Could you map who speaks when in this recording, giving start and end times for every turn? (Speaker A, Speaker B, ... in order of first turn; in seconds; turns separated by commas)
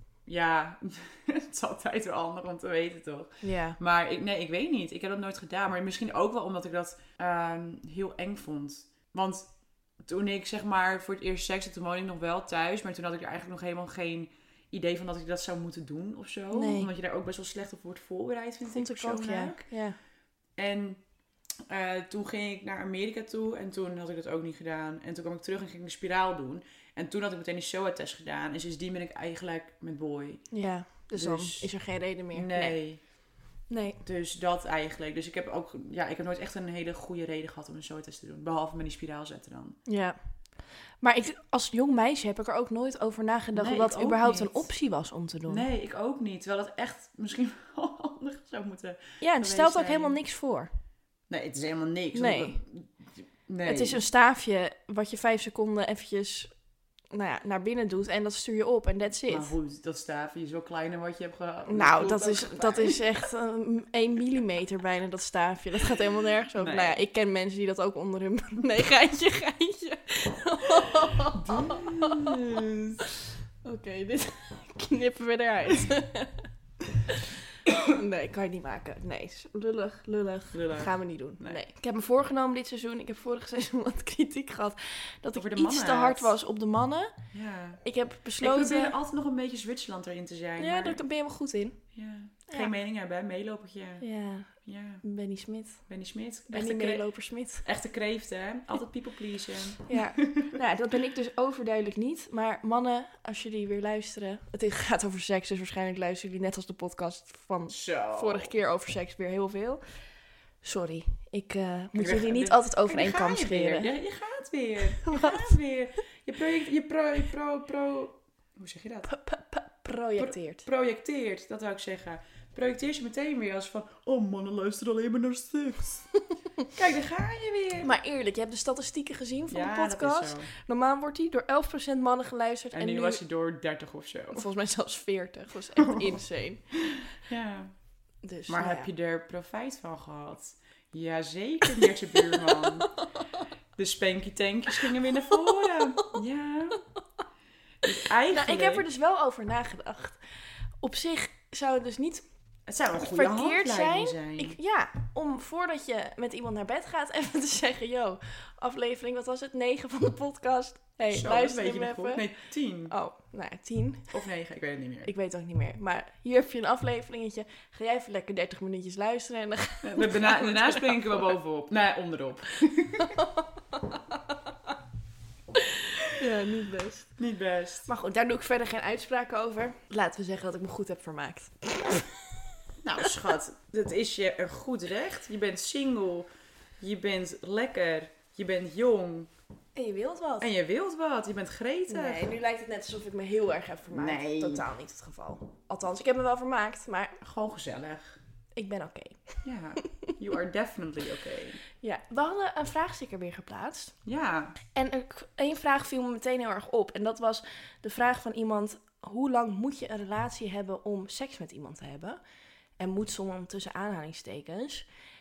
Speaker A: 0.2-19.6, Speaker B: 3.4-3.8, Speaker B: 16.5-16.9, Speaker B: 18.7-20.0, Speaker A: 20.6-21.0, Speaker A: 21.7-30.5, Speaker B: 30.5-32.8, Speaker A: 31.1-31.7, Speaker A: 32.3-33.0, Speaker B: 33.7-34.0, Speaker A: 34.0-39.8, Speaker B: 39.9-40.1, Speaker B: 41.0-45.6, Speaker A: 43.5-44.7, Speaker A: 45.5-50.2, Speaker B: 49.2-50.7, Speaker A: 51.3-54.0, Speaker B: 52.1-52.6, Speaker B: 53.6-56.5, Speaker B: 57.1-59.5, Speaker A: 59.3-63.1, Speaker B: 61.7-72.5, Speaker A: 66.5-67.0, Speaker A: 71.3-73.0, Speaker B: 73.6-76.4, Speaker B: 77.0-87.1, Speaker A: 80.5-81.6, Speaker A: 85.3-86.3, Speaker A: 87.3-87.8, Speaker B: 87.8-88.9, Speaker A: 88.4-91.0, Speaker B: 90.6-91.8, Speaker A: 91.9-94.0, Speaker B: 92.5-92.7, Speaker B: 94.0-94.5, Speaker A: 94.6-95.0, Speaker B: 95.0-95.8, Speaker A: 95.9-97.0, Speaker B: 96.5-97.6, Speaker A: 97.6-100.5, Speaker B: 99.9-109.8, Speaker A: 107.7-108.5, Speaker B: 110.6-113.9, Speaker A: 111.9-119.1, Speaker B: 115.0-115.4, Speaker B: 119.1-120.7, Speaker A: 120.2-126.1, Speaker A: 126.7-127.9, Speaker B: 127.8-133.2, Speaker A: 129.5-130.5, Speaker A: 132.7-134.5, Speaker B: 134.3-136.6, Speaker A: 135.8-136.1, Speaker A: 136.7-137.7, Speaker B: 138.2-138.9, Speaker A: 138.5-143.0, Speaker B: 141.8-143.2, Speaker A: 143.8-146.8, Speaker B: 145.4-146.2, Speaker A: 147.8-148.8, Speaker B: 148.3-150.2, Speaker B: 150.8-152.2, Speaker A: 152.7-154.6, Speaker B: 153.0-162.2, Speaker A: 161.1-162.9, Speaker B: 162.9-164.2, Speaker A: 164.1-165.1, Speaker B: 165.0-171.3, Speaker A: 169.8-173.2, Speaker B: 173.0-174.3, Speaker B: 175.6-177.1, Speaker A: 177.2-177.9, Speaker B: 177.8-182.2, Speaker A: 182.8-186.3, Speaker A: 186.8-189.3, Speaker B: 189.8-190.5, Speaker A: 190.4-192.3, Speaker B: 191.9-197.2, Speaker A: 193.9-194.7, Speaker A: 197.2-198.2, Speaker B: 198.6-200.1, Speaker A: 199.4-201.6, Speaker B: 201.8-203.9, Speaker A: 204.1-204.6, Speaker B: 204.7-212.2, Speaker B: 212.8-214.8